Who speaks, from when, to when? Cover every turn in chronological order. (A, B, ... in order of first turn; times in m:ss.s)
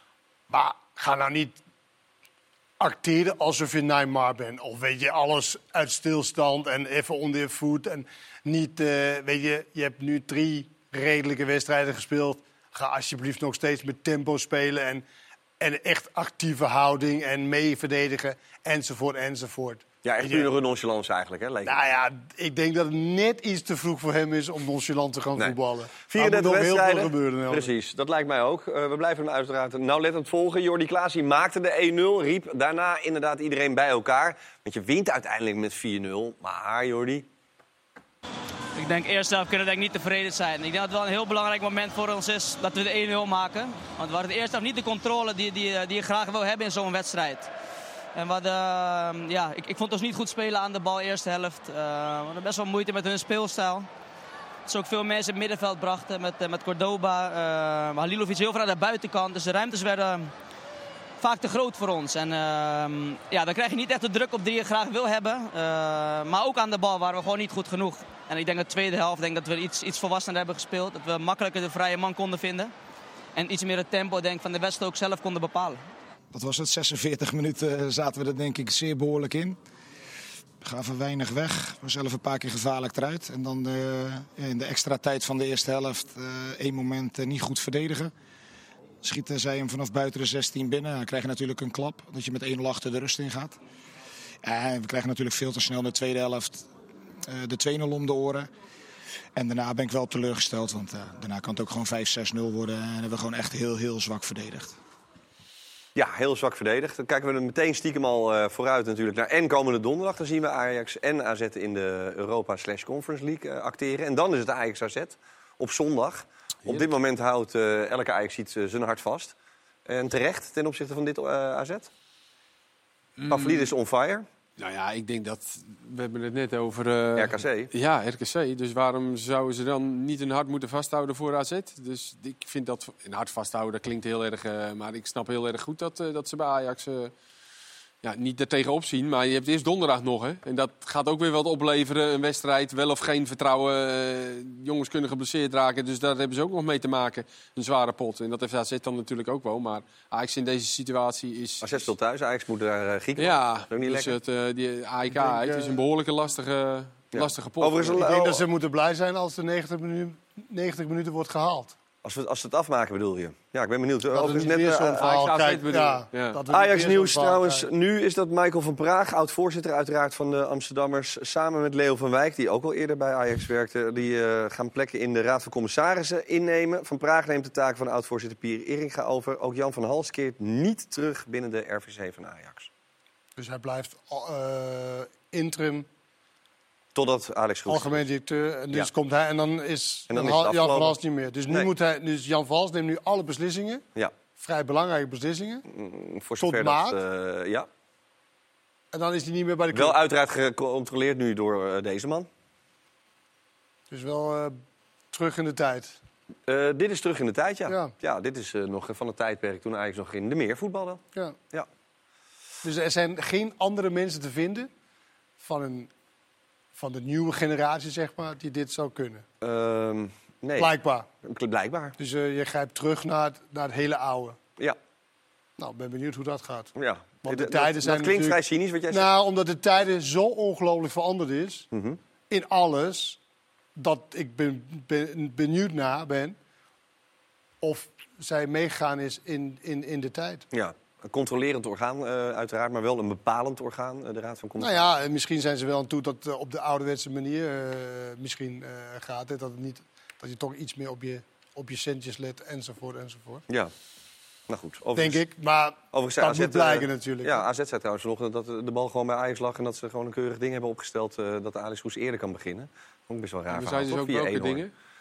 0:00.5-0:01.6 A
0:02.8-0:15.0 A
0:15.6-0:20.5 A
0:20.0-0:21.8 B
0:21.6-0:27.7 A
0:26.1-0:37.3 B
0:38.8-0:47.5 C
0:48.2-0:53.9 C
0:54.7-1:00.3 C
1:01.2-1:12.7 C
1:13.4-1:15.8 C
1:16.3-1:19.6 D
1:20.6-1:28.1 D
1:29.0-1:33.6 D
1:34.4-1:36.7 D
1:37.3-1:38.5 D
1:39.4-1:44.8 D
1:46.0-1:59.3 B
1:59.9-2:01.9 B
2:03.2-2:03.7 E
2:03.3-2:04.3 B
2:04.6-2:17.1 E
2:07.2-2:07.7 B
2:18.0-2:31.9 E
2:31.6-2:34.2 B
2:33.2-2:38.0 E
2:35.1-2:35.8 A
2:37.1-2:38.4 B
2:38.0-2:41.8 A
2:42.0-2:45.3 B
2:44.1-2:47.7 A
2:45.0-2:46.4 E
2:46.5-3:02.7 B
3:03.4-3:05.9 A
3:06.9-3:08.0 B
3:07.7-3:13.8 A
3:10.1-3:11.0 B
3:14.4-3:15.6 A
3:15.7-3:17.7 B
3:16.4-3:17.0 A
3:18.9-3:20.0 A
3:19.7-3:22.3 B
3:23.9-3:24.6 A
3:25.1-3:26.0 A
3:26.5-3:31.0 B
3:27.7-3:27.9 A
3:32.6-3:34.7 A
3:35.4-3:35.9 A
3:36.8-3:39.2 A
3:39.4-3:40.7 B
3:40.6-3:41.1 A
3:41.2-3:42.0 B
3:42.0-3:44.4 A
3:45.6-3:48.4 A
3:46.8-3:49.1 B
3:48.9-3:51.7 A
3:51.7-3:52.0 B
3:52.3-3:53.2 A
3:53.8-3:56.4 A
3:57.6-4:00.4 A
4:00.5-4:04.8 B
4:04.6-4:13.4 A
4:14.5-4:15.2 B
4:15.0-4:17.4 A
4:15.9-4:24.6 B
4:23.5-4:24.7 E